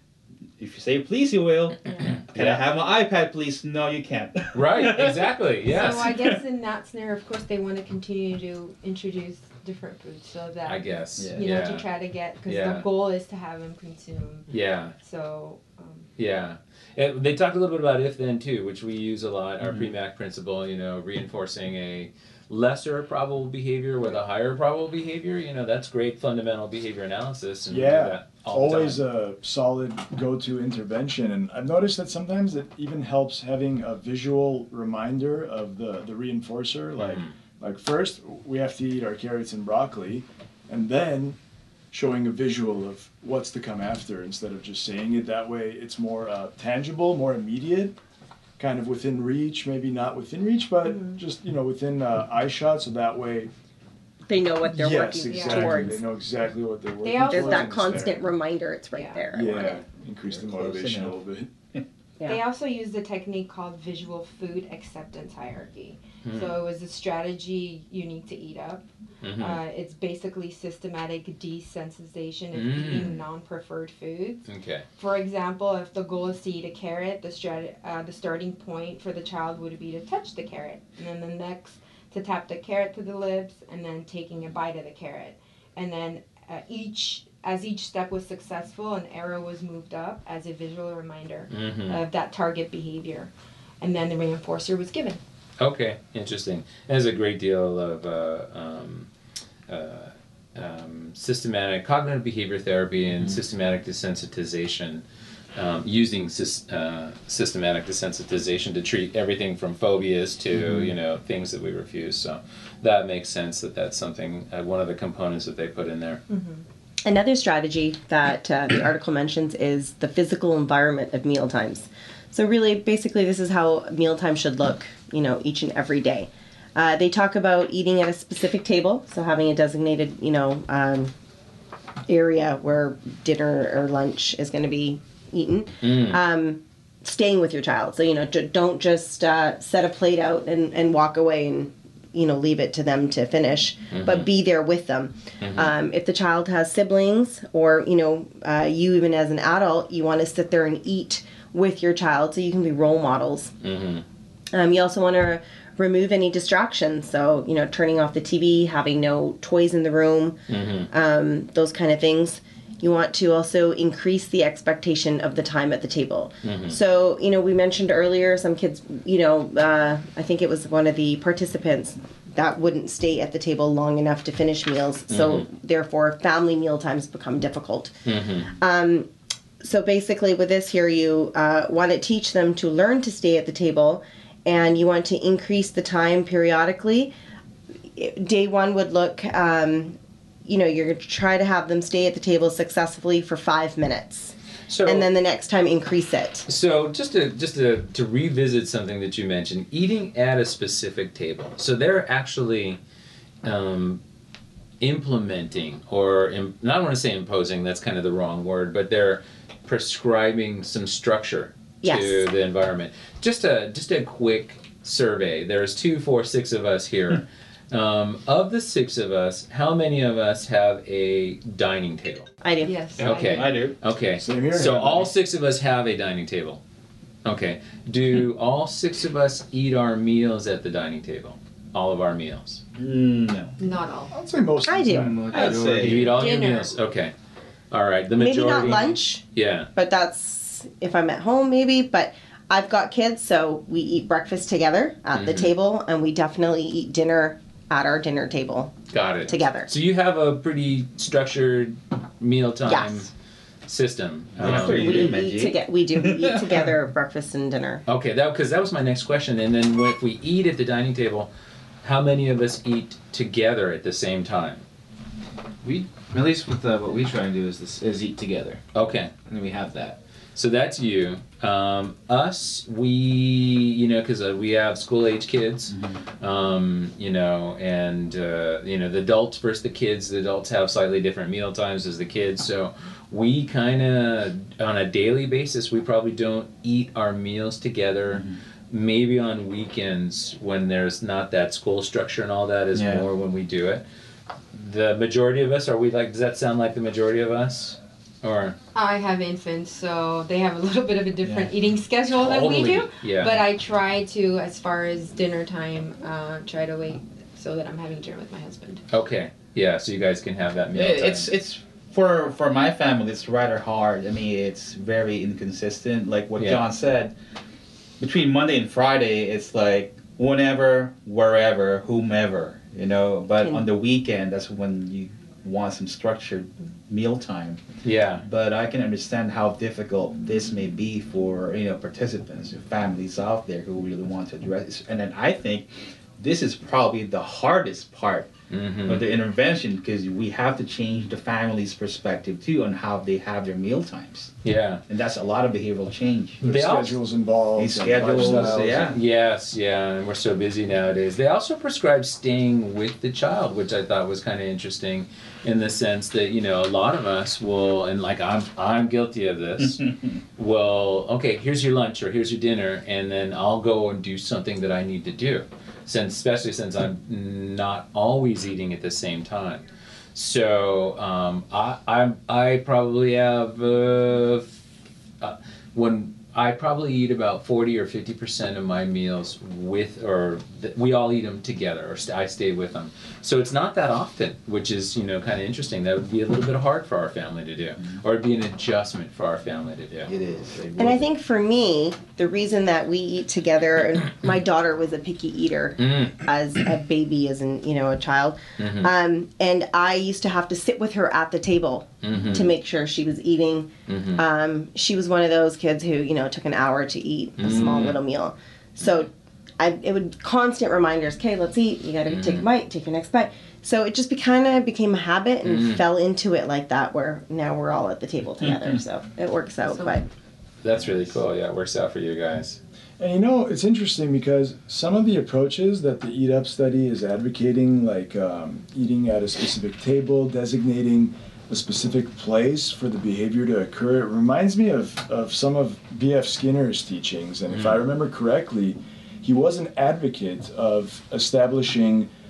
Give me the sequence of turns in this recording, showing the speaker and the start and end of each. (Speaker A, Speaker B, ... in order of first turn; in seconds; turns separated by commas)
Speaker A: 0.6-6.4, Speaker B: 1.8-2.2, Speaker C: 2.2-2.6, Speaker C: 4.5-6.1, Speaker B: 5.7-16.1, Speaker C: 10.7-11.9, Speaker A: 11.2-11.5, Speaker C: 12.4-12.9, Speaker C: 14.5-14.9, Speaker C: 16.2-29.0, Speaker D: 27.7-41.4, Speaker C: 37.0-37.3, Speaker D: 41.9-48.0, Speaker D: 48.6-53.5, Speaker B: 50.9-51.2, Speaker E: 54.3-56.0, Speaker D: 54.6-58.3, Speaker B: 55.3-55.8, Speaker B: 57.0-58.0, Speaker E: 57.2-59.8, Speaker B: 58.9-59.4, Speaker D: 59.3-61.5, Speaker A: 60.3-61.2, Speaker B: 62.3-68.8, Speaker C: 66.2-66.5, Speaker C: 69.2-69.6, Speaker B: 69.4-74.5, Speaker C: 72.5-73.2, Speaker C: 74.5-74.8, Speaker B: 75.0-95.2, Speaker C: 91.5-92.0, Speaker C: 95.6-99.1, Speaker C: 99.7-105.0, Speaker C: 105.5-116.2, Speaker A: 110.6-110.9, Speaker B: 116.3-116.6, Speaker E: 117.0-131.1, Speaker E: 132.1-153.5, Speaker C: 135.8-136.2, Speaker C: 143.9-144.3, Speaker C: 145.4-145.7, Speaker C: 153.6-154.0, Speaker E: 154.5-160.4, Speaker C: 160.5-160.9, Speaker E: 160.9-177.9, Speaker C: 166.4-166.8, Speaker C: 175.1-175.4, Speaker C: 178.0-178.5, Speaker E: 178.6-179.1, Speaker E: 179.6-187.1, Speaker E: 187.9-194.3, Speaker C: 194.7-195.1, Speaker E: 194.8-196.5, Speaker C: 196.5-202.8, Speaker C: 203.4-204.0, Speaker C: 204.8-222.3, Speaker E: 211.8-212.2, Speaker E: 222.4-222.8, Speaker B: 222.6-223.5, Speaker A: 223.0-223.8, Speaker C: 223.0-226.6, Speaker D: 224.1-225.1, Speaker C: 227.2-232.6, Speaker A: 232.8-233.6, Speaker B: 233.6-234.1, Speaker D: 234.1-236.1, Speaker E: 234.6-235.1, Speaker F: 234.8-236.2, Speaker A: 235.3-236.0, Speaker C: 235.8-237.1, Speaker B: 236.1-236.8, Speaker C: 237.7-239.7, Speaker E: 238.2-239.2, Speaker E: 239.7-248.7, Speaker C: 245.1-245.5, Speaker C: 248.9-253.1, Speaker E: 249.3-249.7, Speaker E: 252.7-253.1, Speaker C: 253.7-255.2, Speaker A: 254.4-256.7, Speaker E: 254.4-257.8, Speaker C: 257.9-261.3, Speaker C: 261.8-264.6, Speaker F: 265.6-268.6, Speaker C: 268.7-269.1, Speaker F: 269.2-270.0, Speaker C: 270.4-293.8, Speaker A: 275.7-276.0, Speaker F: 292.7-293.1, Speaker C: 294.5-298.6, Speaker B: 298.7-308.8, Speaker A: 301.2-301.5, Speaker C: 302.1-303.4, Speaker C: 308.9-311.3, Speaker A: 310.7-317.1, Speaker C: 316.4-316.6, Speaker A: 318.0-327.6, Speaker C: 327.8-328.2, Speaker A: 328.2-338.3, Speaker C: 338.5-339.0, Speaker A: 338.9-344.3, Speaker C: 344.4-344.8, Speaker A: 344.9-346.4, Speaker D: 346.4-348.9, Speaker C: 346.4-347.0, Speaker A: 347.6-349.0, Speaker C: 348.1-359.8, Speaker A: 359.6-360.2, Speaker C: 360.4-374.6, Speaker C: 375.2-390.1, Speaker A: 390.1-391.0, Speaker E: 390.8-420.1, Speaker C: 395.8-396.2, Speaker C: 398.6-398.9, Speaker C: 402.0-402.5, Speaker C: 403.9-404.2, Speaker C: 407.4-408.0, Speaker C: 412.1-412.4, Speaker C: 415.4-415.8, Speaker A: 418.4-418.8, Speaker B: 419.7-420.0, Speaker C: 420.6-422.6, Speaker D: 423.0-442.1, Speaker C: 437.5-437.9